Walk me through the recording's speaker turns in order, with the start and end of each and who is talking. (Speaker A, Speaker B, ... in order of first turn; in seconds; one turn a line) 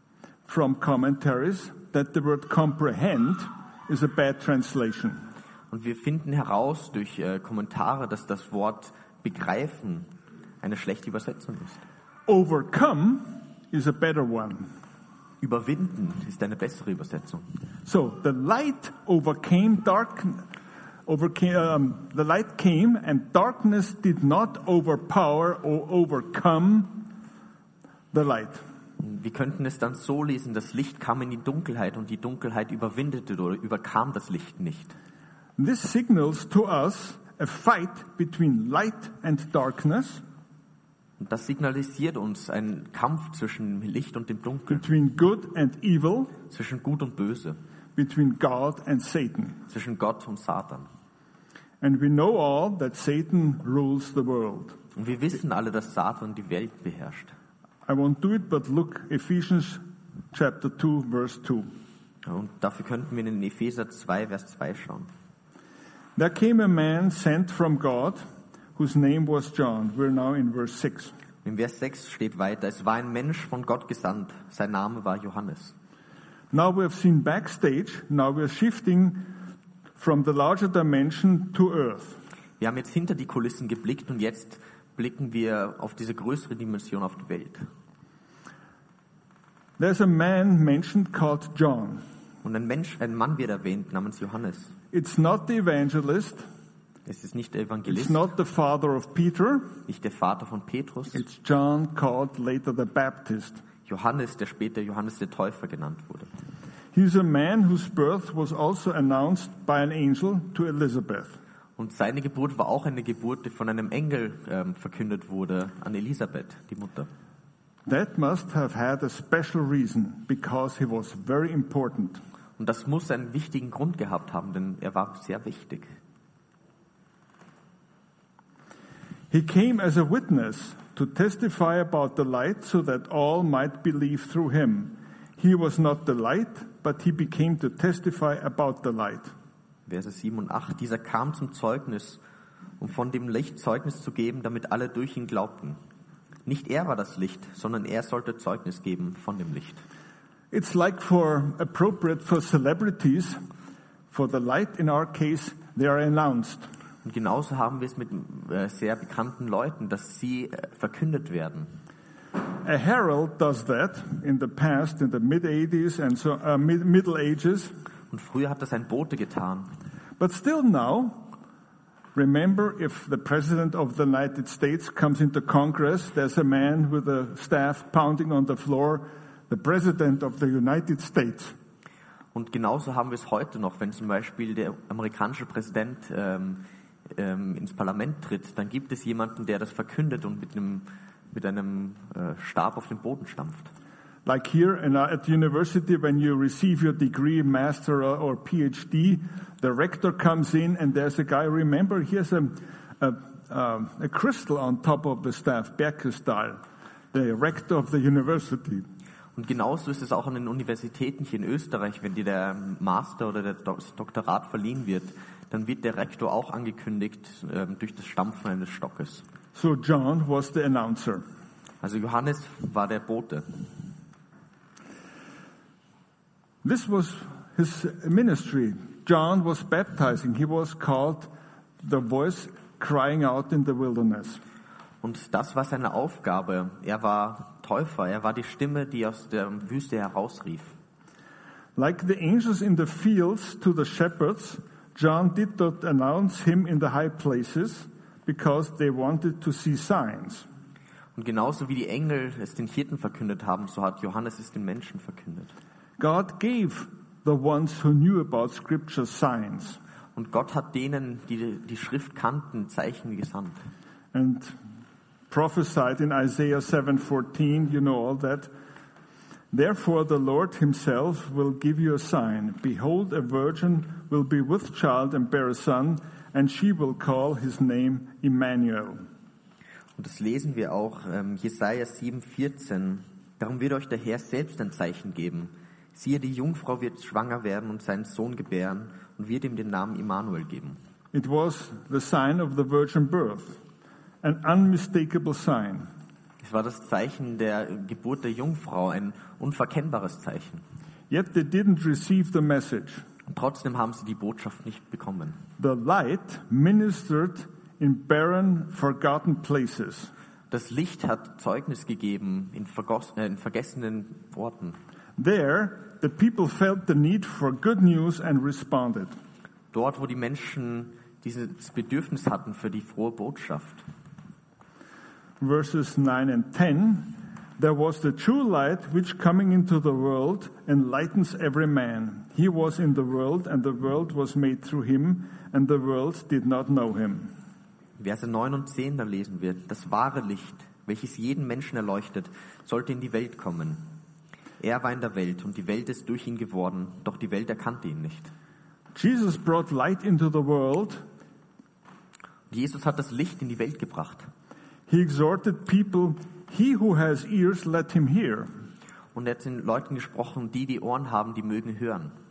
Speaker A: 0.5-5.2
Speaker B: 5.7-11.8
Speaker A: 12.3-14.7
Speaker B: 15.4-17.5
Speaker A: 17.9-20.5
Speaker A: 21.1-27.1
Speaker A: 28.1-28.6
Speaker B: 29.0-34.9
Speaker A: 35.6-40.2
Speaker B: 41.2-44.8
Speaker A: 44.7-46.3
Speaker B: 46.5-47.6
Speaker A: 48.0-49.6
Speaker B: 49.7-50.9
Speaker A: 51.8-54.8
Speaker B: 55.0-57.3
Speaker A: 57.9-61.7
Speaker B: 62.2-65.1
Speaker A: 66.2-68.2
Speaker A: 68.8-71.1
Speaker B: 71.5-75.7
Speaker A: 76.5-79.3
Speaker A: 80.0-82.2
Speaker B: 82.6-87.7
Speaker A: 89.8-92.0
Speaker B: 92.4-94.7
Speaker A: 94.9-96.5
Speaker B: 97.1-98.3
Speaker A: 97.9-99.7
Speaker B: 99.9-101.2
Speaker A: 101.1-103.6
Speaker B: 103.9-106.3
Speaker A: 106.9-111.4
Speaker B: 111.8-117.1
Speaker A: 117.9-122.2
Speaker B: 122.6-125.9
Speaker A: 129.3-139.3
Speaker B: 139.9-142.2
Speaker B: 142.8-145.8
Speaker B: 146.5-149.8
Speaker A: 150.5-153.4
Speaker A: 154.1-156.7
Speaker B: 157.1-161.7
Speaker A: 162.6-167.7
Speaker B: 168.1-169.7
Speaker A: 170.2-171.3
Speaker A: 172.2-181.6
Speaker B: 182.3-193.7
Speaker A: 194.3-206.6
Speaker A: 207.1-208.8
Speaker B: 209.4-219.2
Speaker A: 219.6-221.2
Speaker B: 221.8-223.5
Speaker A: 226.6-231.3
Speaker A: 231.8-234.4
Speaker B: 235.0-240.8
Speaker A: 241.8-250.5
Speaker B: 251.2-255.5
Speaker A: 256.0-259.8
Speaker B: 260.1-263.6
Speaker A: 264.1-264.5
Speaker A: 265.3-268.5
Speaker A: 269.5-279.0
Speaker B: 280.0-290.8
Speaker A: 291.1-293.6
Speaker A: 294.2-295.9
Speaker B: 296.4-300.6
Speaker A: 301.1-303.0
Speaker B: 303.3-305.4
Speaker A: 305.6-310.1
Speaker B: 310.5-314.8
Speaker A: 315.2-319.1
Speaker B: 319.7-323.8
Speaker A: 325.4-337.3
Speaker B: 338.0-343.9
Speaker B: 344.6-348.3
Speaker A: 348.9-351.0
Speaker B: 352.5-354.3
Speaker A: 354.9-358.5
Speaker B: 359.1-362.1